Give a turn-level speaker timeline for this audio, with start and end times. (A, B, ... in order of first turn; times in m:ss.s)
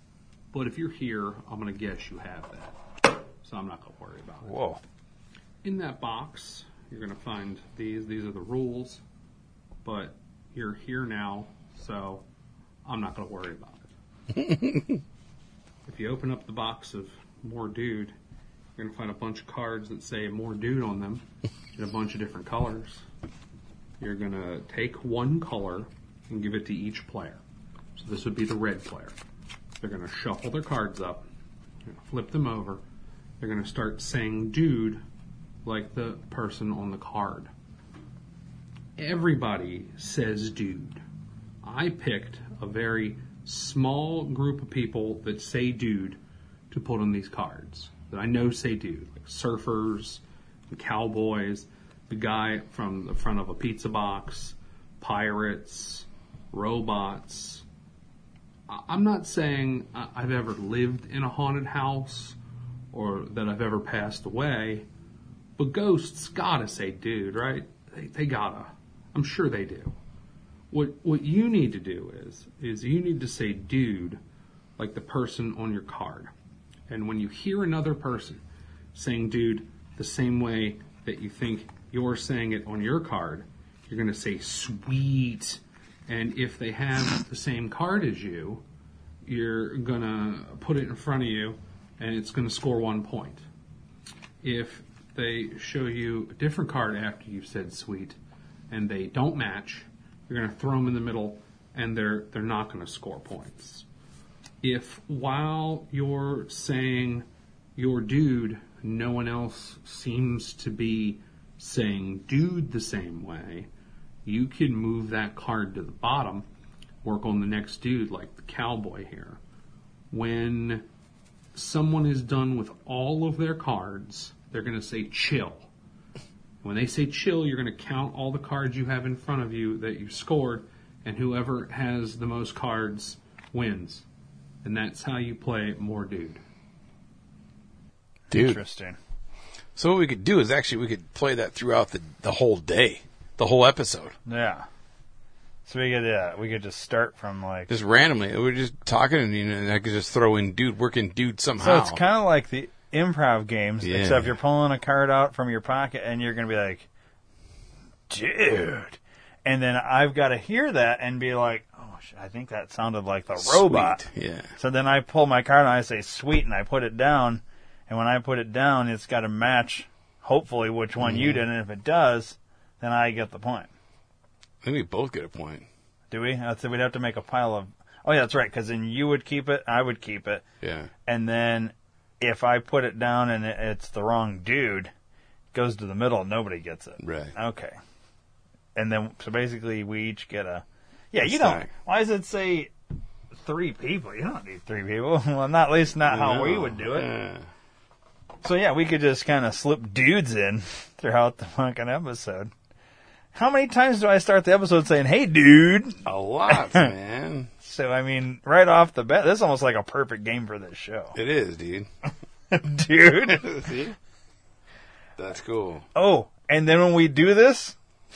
0:00.5-0:02.8 A
0:03.4-0:04.6 A
0:04.4-0:04.8 B
0:05.6-0:09.0 A
0:09.8-0:12.2 A
0:12.8-0:13.9 A
0:14.4-0:15.0 C
0:15.8-0:18.1 A
0:18.8-0:23.0 A
0:24.0-0:27.4 A
0:28.0-0:29.2 A
0:29.8-0:31.2 A
0:31.8-0:32.8 A
0:33.4-0:35.0 A
0:35.6-0:37.5 A
0:39.0-0:41.0 A
0:41.6-0:46.2 A
0:46.7-0:57.6 A
0:58.7-1:02.4 A
1:02.9-1:04.8 A
1:05.6-1:09.9 A
1:10.7-1:14.2 A
1:14.8-1:16.3 A
1:16.9-1:18.4 A
1:18.9-1:28.6 A
1:29.2-1:33.4 A
1:34.4-1:38.2 A
1:38.7-1:43.8 A
1:44.6-1:53.7 A
1:54.2-1:56.4 A
1:57.0-1:59.4 A
2:00.1-2:00.8 A
2:01.5-2:05.7 A
2:06.6-2:14.0 A
2:14.6-2:16.4 A
2:18.3-2:19.0 B
2:18.3-2:18.6 C
2:19.8-2:24.1 C
2:24.2-2:24.6 B
2:25.7-2:27.7 B
2:27.7-2:32.0 C
2:31.6-2:36.9 B
2:33.8-2:34.3 C
2:38.1-2:44.0 B
2:43.4-2:44.5 C
2:44.6-2:53.7 B
2:51.0-2:51.4 C
2:54.6-2:55.7 C
2:56.1-3:00.4 B
3:00.6-3:00.9 C
3:01.0-3:04.9 B
3:05.5-3:07.8 B
3:07.0-3:07.3 C
3:08.7-3:12.7 B
3:11.2-3:11.7 C
3:13.4-3:17.1 B
3:16.0-3:17.4 C
3:18.4-3:22.5 B
3:23.3-3:26.9 B
3:26.0-3:27.5 C
3:27.6-3:31.2 B
3:31.1-3:31.9 C
3:32.5-3:33.5 B
3:33.1-3:34.0 C
3:35.2-3:35.8 C
3:35.9-3:37.8 B